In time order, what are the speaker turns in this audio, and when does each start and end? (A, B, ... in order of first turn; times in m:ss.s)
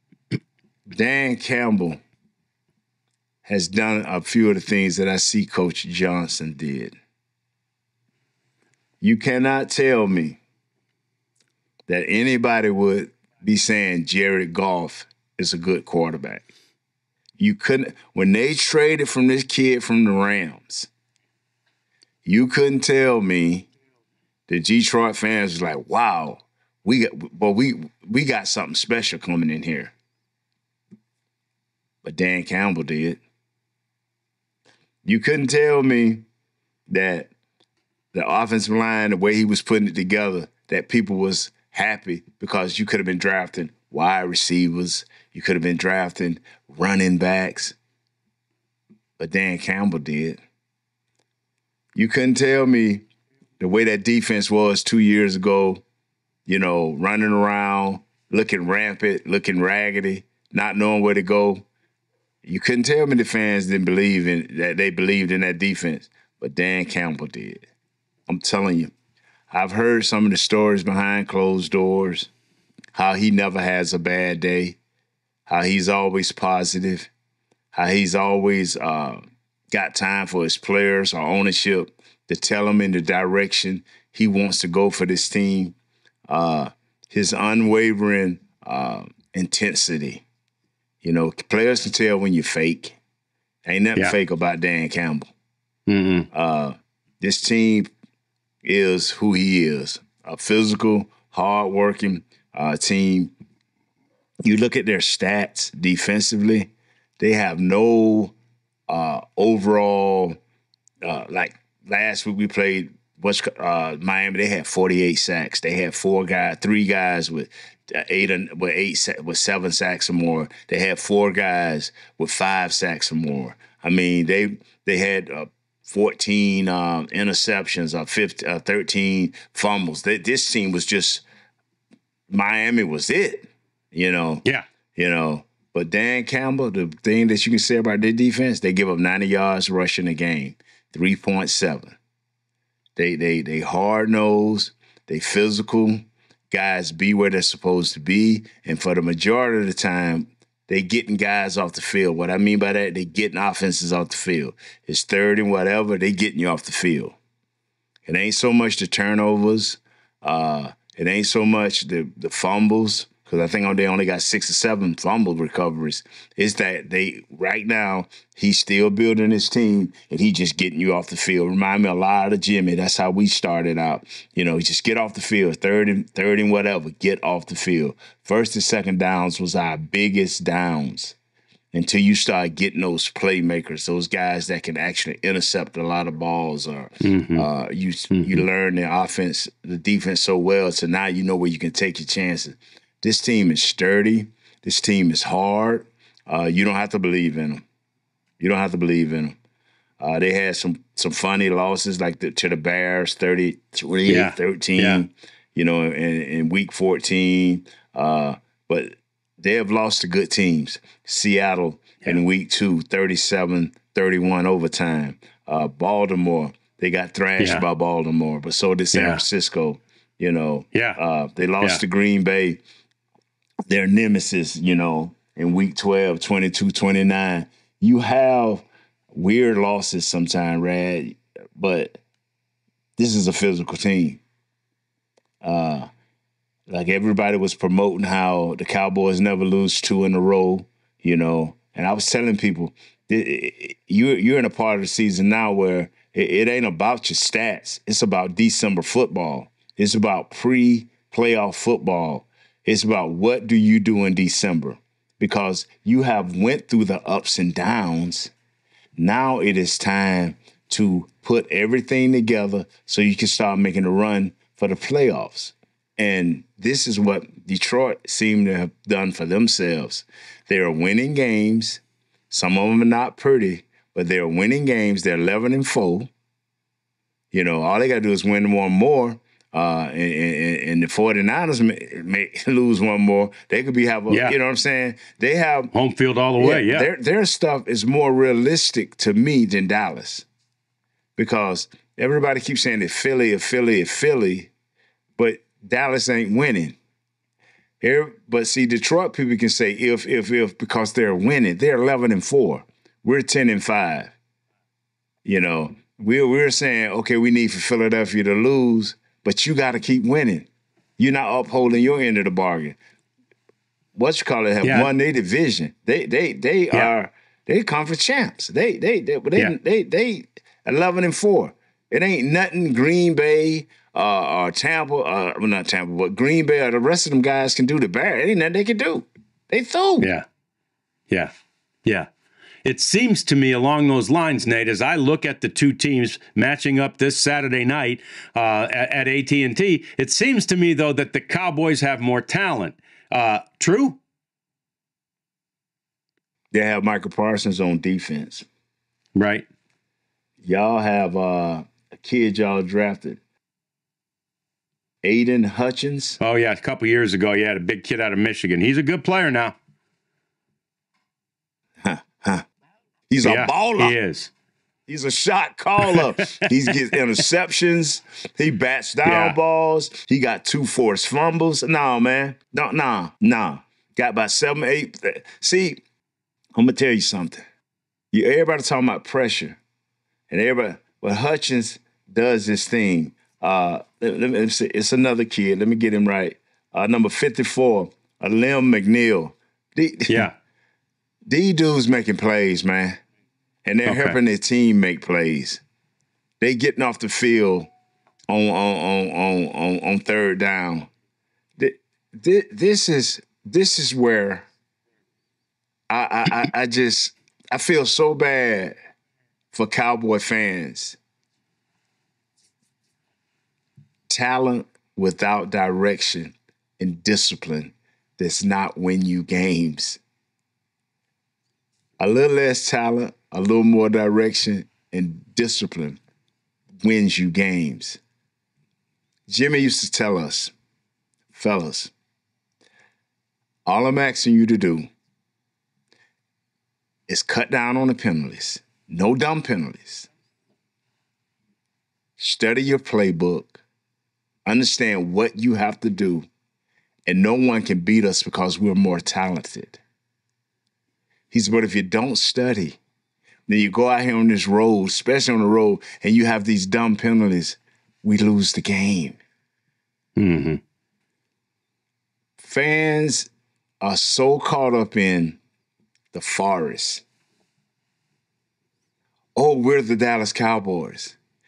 0:00.9-0:02.0 A
0:03.5-0:06.9 A
0:09.0-0:10.4 A
0:11.9-0:16.5 A
0:17.4-0:20.9 A
0:22.2-0:23.7 A
0:24.5-0:29.9 A
0:32.0-0:33.2 A
0:35.0-0:36.2 A
0:36.9-0:37.3 A
0:38.1-0:47.8 A
0:49.2-0:50.4 A
0:52.0-0:53.0 A
0:53.6-0:55.8 A
0:56.5-1:01.6 A
1:02.4-1:07.6 A
1:08.3-1:08.9 A
1:09.5-1:12.3 A
1:12.9-1:14.8 A
1:15.5-1:17.1 A
1:17.7-1:25.8 A
1:26.3-1:30.2 A
1:31.0-1:33.0 A
1:33.6-1:35.3 A
1:35.9-1:36.3 B
1:36.3-1:37.9 A
1:38.6-1:43.3 A
1:44.4-1:48.3 A
1:48.9-1:50.4 A
1:51.0-2:11.2 A
2:12.3-2:22.0 A
2:23.0-2:37.2 A
2:38.1-3:01.2 A
3:01.7-3:17.6 A
3:07.0-3:07.5 B
3:08.1-3:08.4 B
3:18.4-3:19.4 A
3:20.0-3:42.6 A
3:24.1-3:25.0 B
3:37.4-3:37.6 B
3:38.9-3:39.2 B
3:40.7-3:41.0 B
3:43.7-3:52.0 A
3:53.0-3:54.2 A
3:55.4-3:55.9 A
3:56.7-4:18.3 A
4:19.0-4:36.1 A
4:37.3-4:45.7 A
4:44.1-4:44.4 B
4:45.7-4:46.9 B
4:46.4-4:50.3 A
4:51.2-4:54.5 A
4:55.2-4:56.8 A
4:57.8-5:04.1 A
5:05.2-5:12.8 A
5:14.0-5:30.1 A
5:14.6-5:14.9 B
5:30.0-5:30.2 B
5:32.6-5:44.0 B
5:46.5-5:48.4 A
5:49.2-5:49.5 B
5:50.4-5:53.2 A
5:55.0-5:56.2 A
5:56.2-5:59.6 B
6:01.8-6:02.4 A
6:03.1-6:04.0 A
6:03.2-6:04.3 B
6:04.9-6:15.8 A
6:05.8-6:06.1 B
6:09.0-6:09.4 B
6:16.6-6:17.4 A
6:18.1-6:19.6 A
6:20.3-6:30.3 A
6:30.1-6:30.3 B
6:31.3-6:33.0 A
6:33.6-6:35.6 A
6:33.9-6:34.2 B
6:36.4-6:37.7 A
6:38.3-6:40.9 A
6:41.6-6:44.5 A
6:45.9-6:48.8 A
6:49.5-6:51.0 A
6:54.1-7:00.0 A
7:02.0-7:06.0 A
7:06.8-7:08.0 A
7:09.3-7:10.5 A
7:11.3-7:11.9 A
7:13.7-7:14.9 A
7:17.1-7:20.1 A
7:22.2-7:23.6 A
7:24.5-7:26.3 A
7:27.1-7:29.8 A
7:31.3-7:32.8 A
7:33.5-7:39.2 A
7:40.2-7:40.6 B
7:42.4-7:43.3 A
7:43.8-7:45.4 A
7:46.1-7:47.0 A
7:49.4-7:51.2 A